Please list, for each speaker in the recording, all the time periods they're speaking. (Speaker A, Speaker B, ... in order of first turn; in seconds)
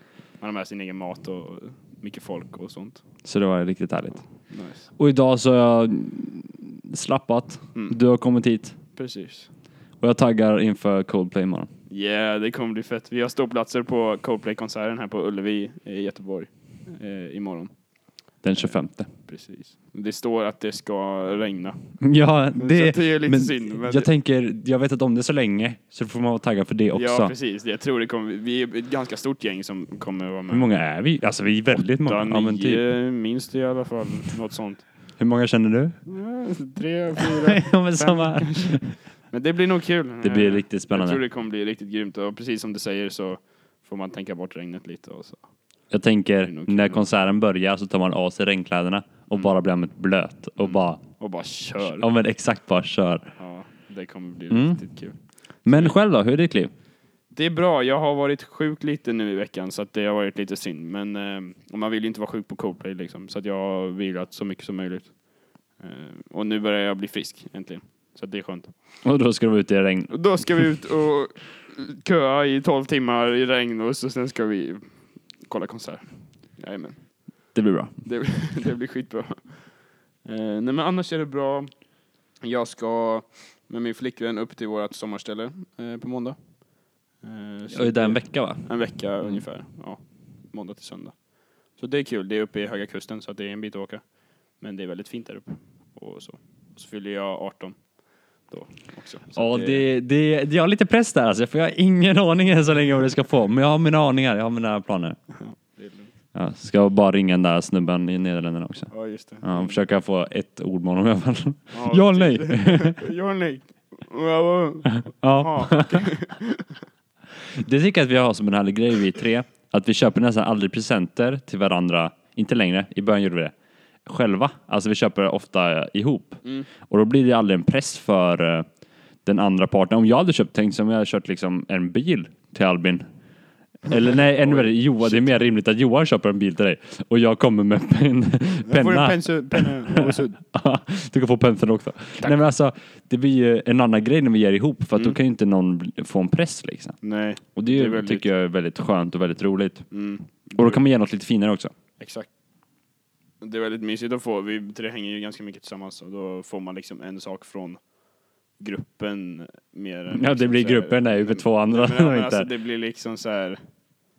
Speaker A: 0.4-3.0, 4.5-4.9, 8.9-9.5, 11.9-17.8, 18.5-22.0, 22.5-24.1, 26.9-30.7, 31.9-34.9, 36.1-45.5, 46.5-47.1, 49.3-49.6, 50.6-52.1, 53.4-56.0, 57.3-65.2, 65.8-68.7, 70.1-81.8, 82.4-86.6, 87.2-99.9, 105.3-106.1, 108.9-109.8, 111.7-116.7, 134.3-135.3, 138.7-140.4, 147.0-148.3, 149.9-150.8, 152.0-152.3, 153.4-157.9, 158.6-163.6
Speaker B: 3.2-4.2, 5.0-8.8, 10.0-11.7, 18.4-19.1, 22.0-27.3, 30.5-32.9, 35.2-36.0, 37.3-38.9, 40.2-41.2, 45.9-51.0, 51.8-53.3, 54.5-54.9, 55.6-56.7, 69.0-70.6, 77.5-77.9, 87.7-89.5, 99.3-105.2, 106.3-113.0, 115.0-116.1, 117.5-123.5, 124.1-128.7, 129.2-133.0, 133.8-147.0, 147.6-149.9, 150.6-151.7, 160.1-162.5